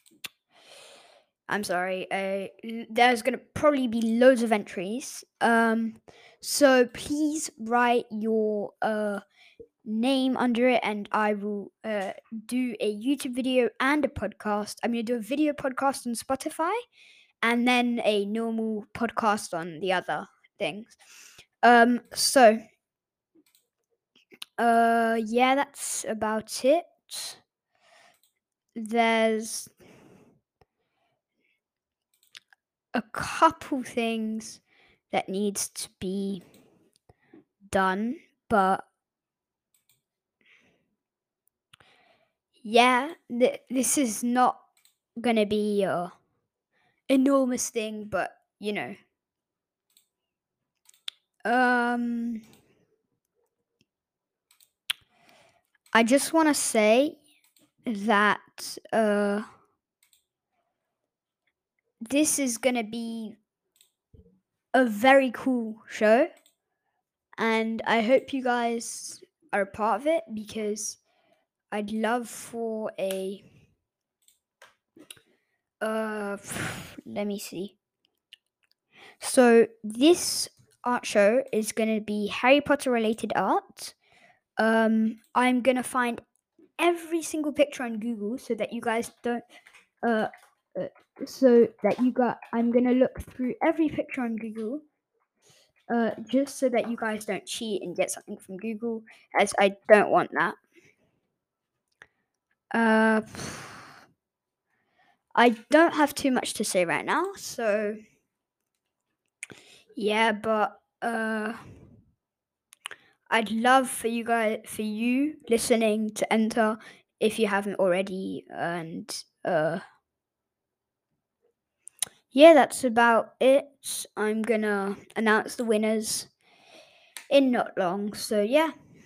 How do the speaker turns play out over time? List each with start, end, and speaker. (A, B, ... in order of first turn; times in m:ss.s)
0:01.5-0:09.2 A
0:09.8-0:16.8 A
0:17.4-0:21.0 A
0:21.6-0:22.6 A
0:24.6-0:27.4 A
0:28.8-0:29.7 A
0:32.9-0:36.4 A
0:37.7-0:38.8 A
0:42.6-0:44.6 A
0:45.2-0:46.1 A
0:47.1-0:49.0 A
0:51.4-0:52.4 A
0:55.9-0:57.2 A
0:57.9-0:59.5 A
1:02.1-1:03.4 A
1:04.7-1:06.3 A
1:07.4-1:11.0 A
1:11.7-1:13.4 A
1:15.8-1:17.8 A
1:19.2-1:24.0 A
1:24.6-1:26.2 A
1:26.8-1:29.4 A
1:30.0-1:34.8 A
1:35.9-1:40.6 A
1:42.7-1:43.8 A
1:45.4-1:48.0 A
1:50.0-1:51.6 A
1:53.3-1:59.8 A
2:02.3-2:06.3 A
2:07.3-2:08.7 A